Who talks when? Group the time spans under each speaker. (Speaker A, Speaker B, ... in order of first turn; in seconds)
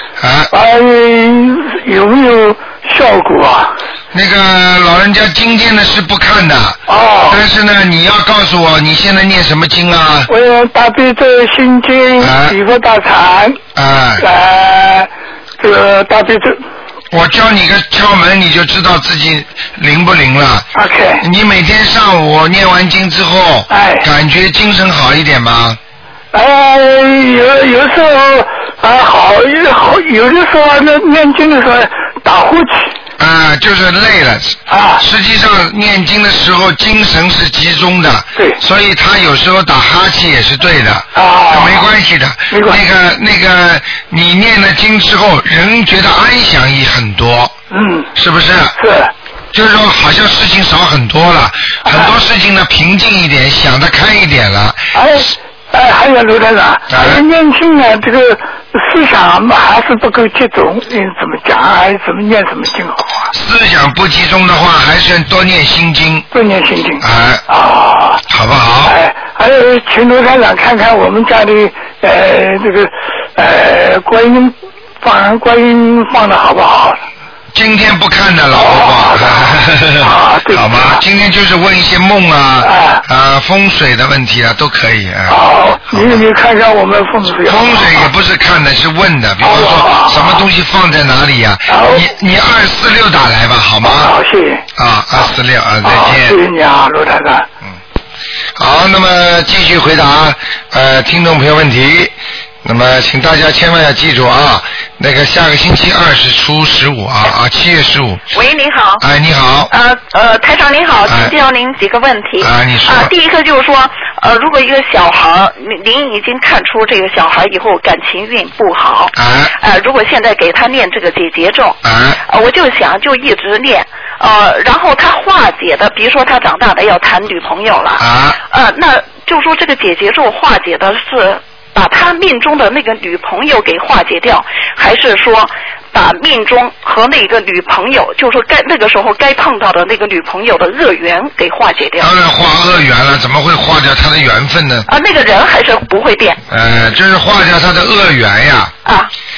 Speaker A: 0.2-0.5, 4.1-10.3, 12.2-12.6, 13.8-14.2, 17.1-25.8, 33.2-47.5, 48.1-48.8, 49.5-54.9, 56.9-57.2, 63.3-66.3, 67.0-67.4, 68.3-69.0, 77.5-86.2, 87.4-94.1, 94.8-96.4, 98.6-108.3, 109.0-109.7, 111.1-111.3, 112.4-113.1, 119.2-119.5, 121.8-122.2, 128.0-128.4, 142.0-144.9, 146.5-148.7
Speaker B: 0.5-3.8, 6.9-7.4, 10.3-13.6, 14.2-16.6, 20.8-21.2, 23.7-24.1, 26.3-32.9, 34.7-35.0, 41.1-41.9, 42.5-42.8, 47.7-48.1, 48.8-49.1, 51.9-52.1, 54.9-63.3, 66.3-68.2, 68.8-77.0, 78.6-81.0, 82.6-83.0, 85.3-88.1, 89.4-90.4, 91.7-92.0, 93.8-94.6, 95.8-97.5
Speaker C: 108.3-109.0, 109.7-142.1, 144.9-146.4, 148.8-149.1